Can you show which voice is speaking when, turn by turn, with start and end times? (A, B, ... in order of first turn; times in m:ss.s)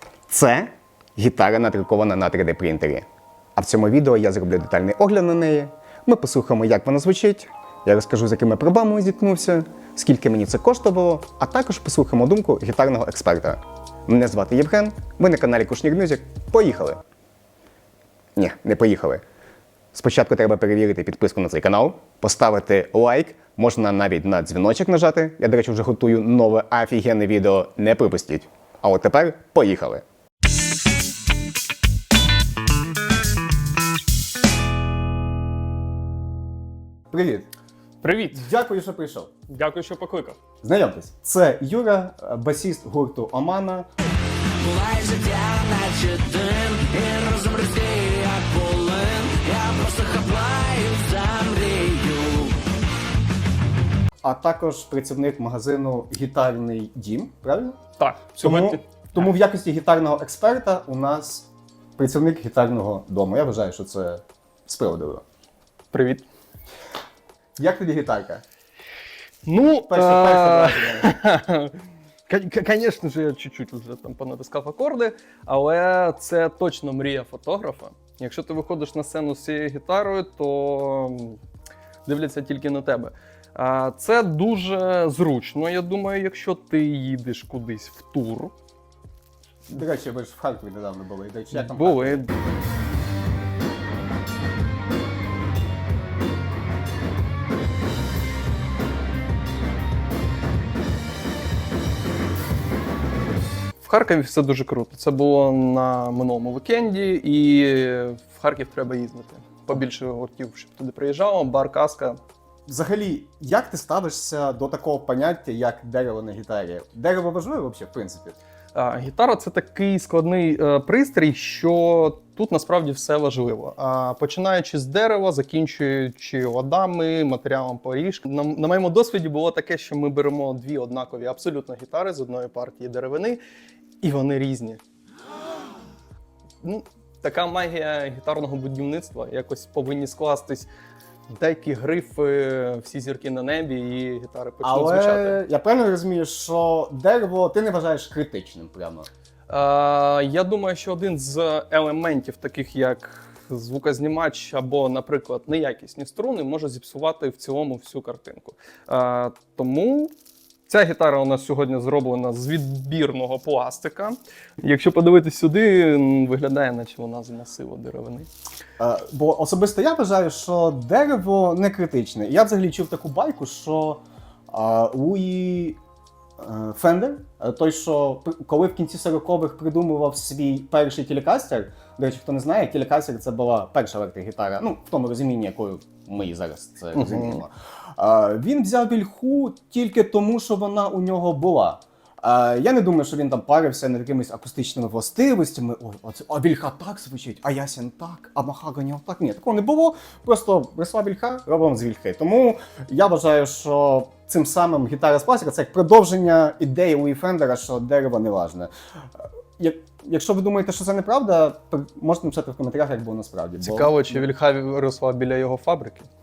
0:00.3-0:17.0 A
0:18.4-0:19.2 A
0:19.9-0:30.0 A
0:37.1-0:37.5 A
0:38.0-0:38.5 B
0:38.3-0:39.3 A
0:39.5-0:40.4 B
0:40.6-0:43.9 A
0:44.6-0:52.6 C
0:54.2-0:57.8 A
0:58.0-0:59.2 B
0:58.3-1:05.2 A
1:05.9-1:06.2 B
1:07.6-1:08.4 A
1:09.4-1:11.8 B
1:09.9-1:11.1 A
1:12.3-1:21.4 B
1:22.0-1:28.5 B
1:29.7-1:32.3 A
1:31.5-1:32.3 B
1:43.8-1:52.2 B
1:52.7-1:58.4 A
1:58.7-2:13.4 B
2:14.0-2:14.8 B
2:16.6-2:20.7 B
2:21.3-2:25.4 B
2:24.6-2:29.1 A
2:29.5-2:40.1 B
2:40.7-2:48.3 B
2:48.8-2:55.8 A
2:56.4-3:28.7 A
3:06.9-3:07.4 B
3:29.6-3:34.1 A
3:33.6-3:36.1 B